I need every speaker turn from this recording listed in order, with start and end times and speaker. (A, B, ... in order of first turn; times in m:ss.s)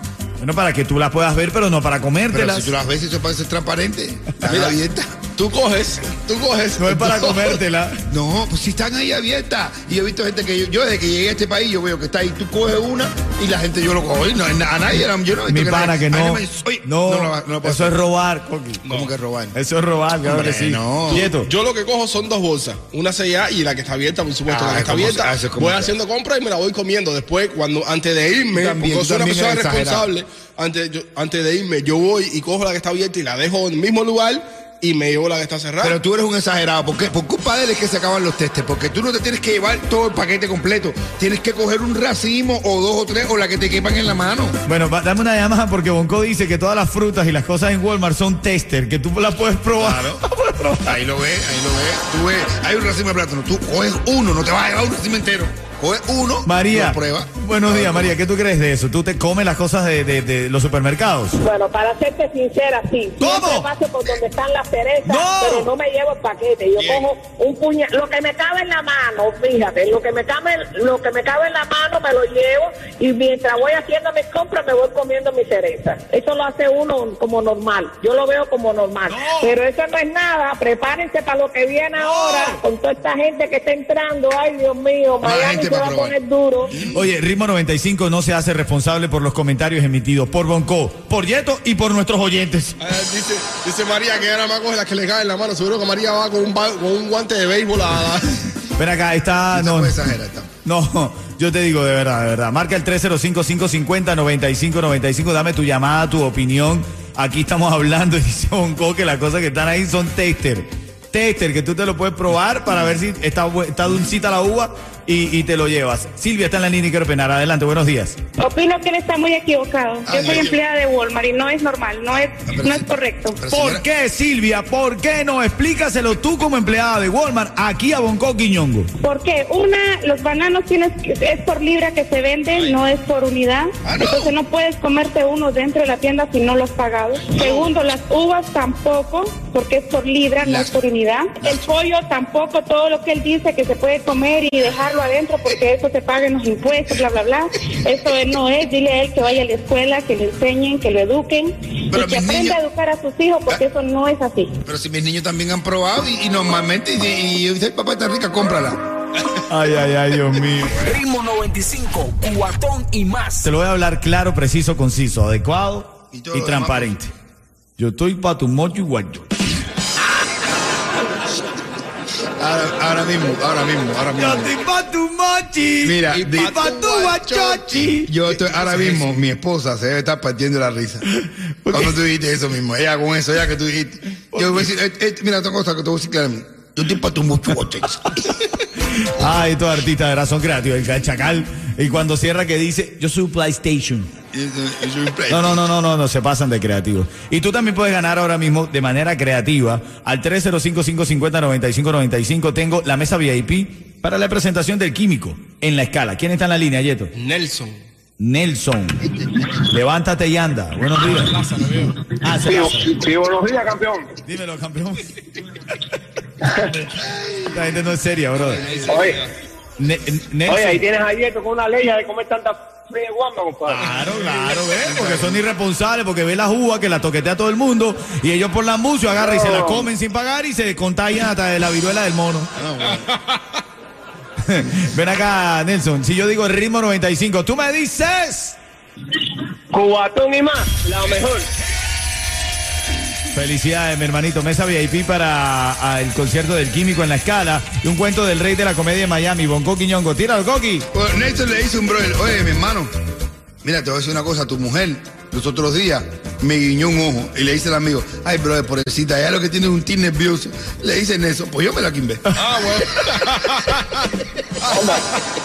0:00.4-0:02.7 A
0:02.3-0:05.2 B
0:04.4-0:07.6 C
0:06.8-0:08.0 A
0:08.1-0:18.0 B
0:15.5-0:18.8 A
0:18.8-0:19.1 C
0:18.9-0:19.6 B
0:19.6-0:21.5 A
0:20.2-0:21.3 B
0:21.1-0:36.0 C
0:24.5-0:26.0 B
0:28.5-0:30.1 B
0:35.8-0:44.6 B
0:44.7-0:51.0 A
0:49.8-0:50.2 B
0:50.9-0:58.2 B
0:56.5-1:01.4 A
1:01.4-1:26.7 D
1:03.2-1:03.7 A
1:05.1-1:05.7 A
1:06.8-1:07.1 C
1:19.1-1:19.6 A
1:22.0-1:22.6 A
1:25.2-1:26.2 B
1:26.7-1:27.1 B
1:26.8-1:32.8 A
1:32.8-1:38.4 C
1:38.8-1:40.1 A
1:39.5-1:40.5 B
1:40.6-1:58.2 A
1:58.4-2:03.4 E
2:00.1-2:00.6 B
2:02.4-2:03.8 B
2:03.5-2:08.9 A
2:09.0-2:34.6 E
2:12.5-2:12.8 C
2:13.8-2:14.3 B
2:17.3-2:17.7 C
2:20.4-2:20.8 B
2:31.9-2:32.6 B
2:34.6-2:38.8 B
2:39.5-2:40.9 A
2:40.8-2:43.5 F
2:43.4-2:47.1 A
2:46.1-2:47.0 B
2:47.8-2:49.4 A
2:52.4-2:54.5 B
2:54.2-2:58.1 A
2:55.8-2:56.5 B
2:56.1-2:59.2 C
2:58.0-3:01.0 B
3:01.1-3:02.0 A
3:01.7-3:08.3 B
3:04.3-3:04.7 A
3:08.8-3:14.1 A
3:14.3-3:15.6 B
3:15.3-3:27.1 A
3:27.2-3:27.8 C
3:28.2-3:31.4 A
3:31.0-3:32.0 C
3:32.1-3:33.0 A
3:32.5-3:34.1 G
3:34.2-3:35.8 A
3:37.0-3:37.5 B
3:37.5-3:38.8 A
3:38.4-3:39.3 C
3:38.6-3:39.1 B
3:38.9-3:39.2 G
3:39.8-3:40.8 A
3:40.5-3:43.8 G
3:43.7-3:52.5 A
3:44.8-3:45.5 B
3:49.2-3:49.9 G
3:52.6-3:53.1 B
3:54.4-3:58.6 A
3:59.7-4:01.5 G
4:03.3-4:10.9 A
4:10.9-4:12.9 B
4:13.6-4:22.3 B
4:22.3-4:25.2 C